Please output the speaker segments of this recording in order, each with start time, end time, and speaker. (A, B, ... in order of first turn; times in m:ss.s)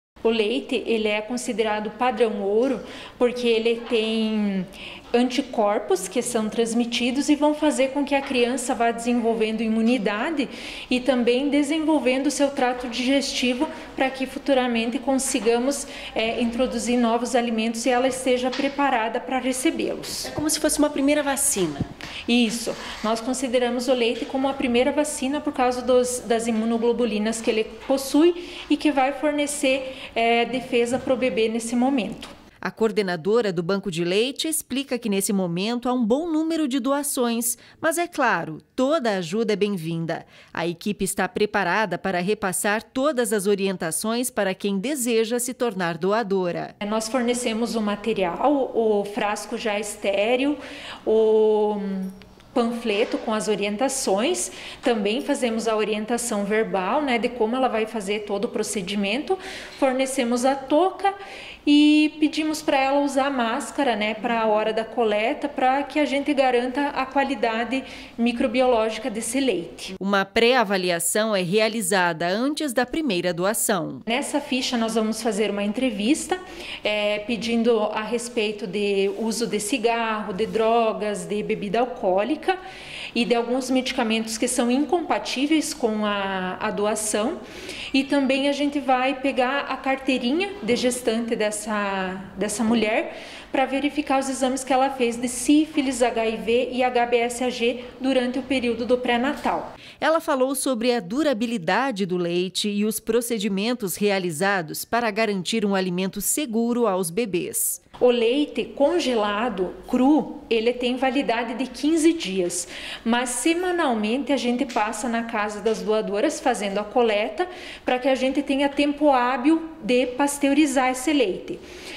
0:00.2-0:20.3 A
0:20.2-0:21.9 B
0:22.3-0:32.3 A
0:32.6-0:46.7 B
0:46.8-1:01.1 A
1:01.6-1:10.0 A
1:10.0-1:14.0 B
1:14.1-1:22.6 A
1:23.1-1:27.4 A
1:27.9-1:39.7 A
1:40.0-1:47.8 B
1:48.0-2:01.6 A